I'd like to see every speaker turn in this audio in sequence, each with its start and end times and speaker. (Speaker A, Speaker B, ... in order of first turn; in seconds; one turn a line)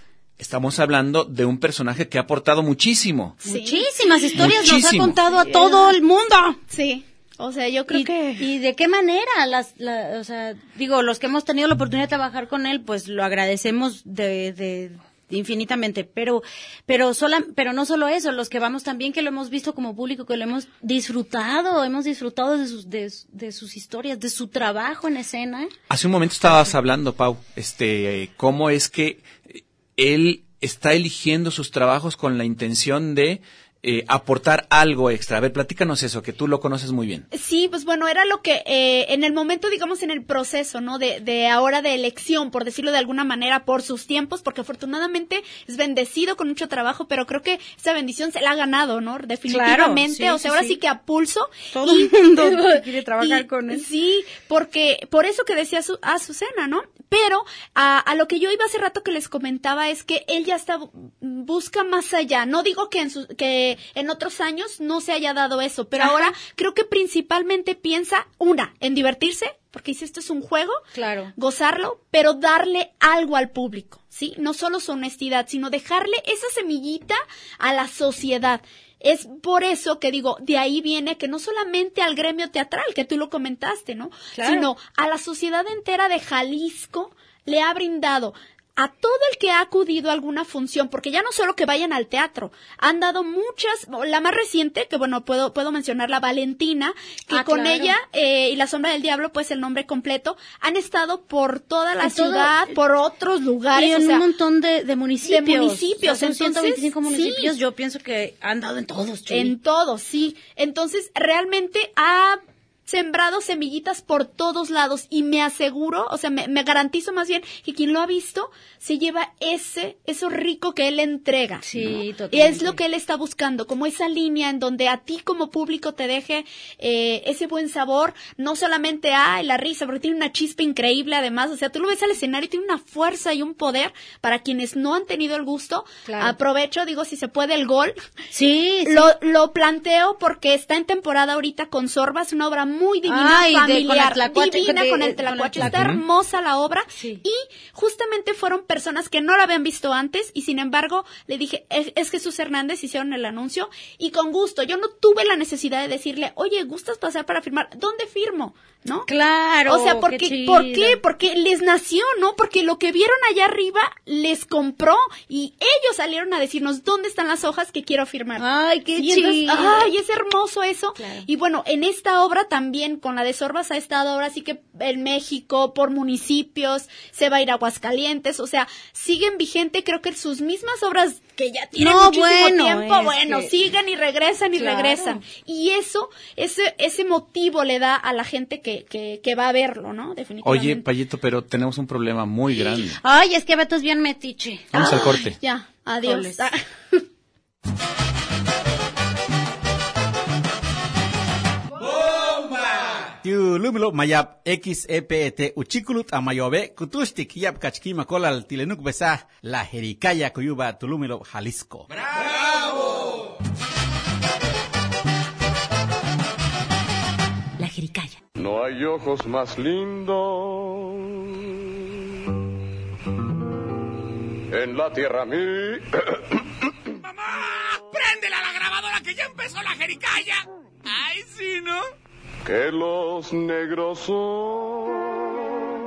Speaker A: 0.4-3.4
Speaker B: 3.4-4.4
Speaker C: 3.4-6.6
Speaker A: 4.3-5.2
Speaker B: 5.3-5.9
Speaker B: 6.7-8.5
Speaker C: 7.9-25.7
Speaker A: 25.9-37.2
Speaker B: 37.3-70.8
Speaker C: 49.5-50.8
Speaker C: 51.7-53.9
Speaker C: 66.0-66.3
Speaker C: 70.9-71.3
Speaker B: 71.3-104.3
Speaker C: 84.3-84.7
Speaker C: 97.3-98.0
Speaker C: 102.0-102.7
Speaker C: 103.7-109.5
Speaker B: 105.2-107.5
Speaker B: 109.3-138.0
Speaker C: 121.6-122.8
Speaker C: 136.0-136.4
Speaker C: 138.3-139.1
Speaker B: 138.8-159.1
Speaker C: 143.1-145.9
Speaker A: 145.6-146.0
Speaker C: 146.9-147.2
Speaker C: 159.1-161.0
Speaker B: 159.7-190.8
Speaker C: 168.4-169.9
Speaker C: 171.0-171.2
Speaker C: 181.8-183.5
Speaker C: 184.5-185.2
Speaker A: 190.4-193.0
Speaker C: 192.9-194.7
Speaker A: 194.7-195.3
Speaker B: 194.7-196.6
Speaker C: 196.0-196.4
Speaker D: 203.2-211.9
Speaker C: 217.6-218.2
Speaker E: 218.3-221.5
Speaker E: 224.5-226.5
Speaker A: 227.2-231.8
Speaker E: 232.4-235.3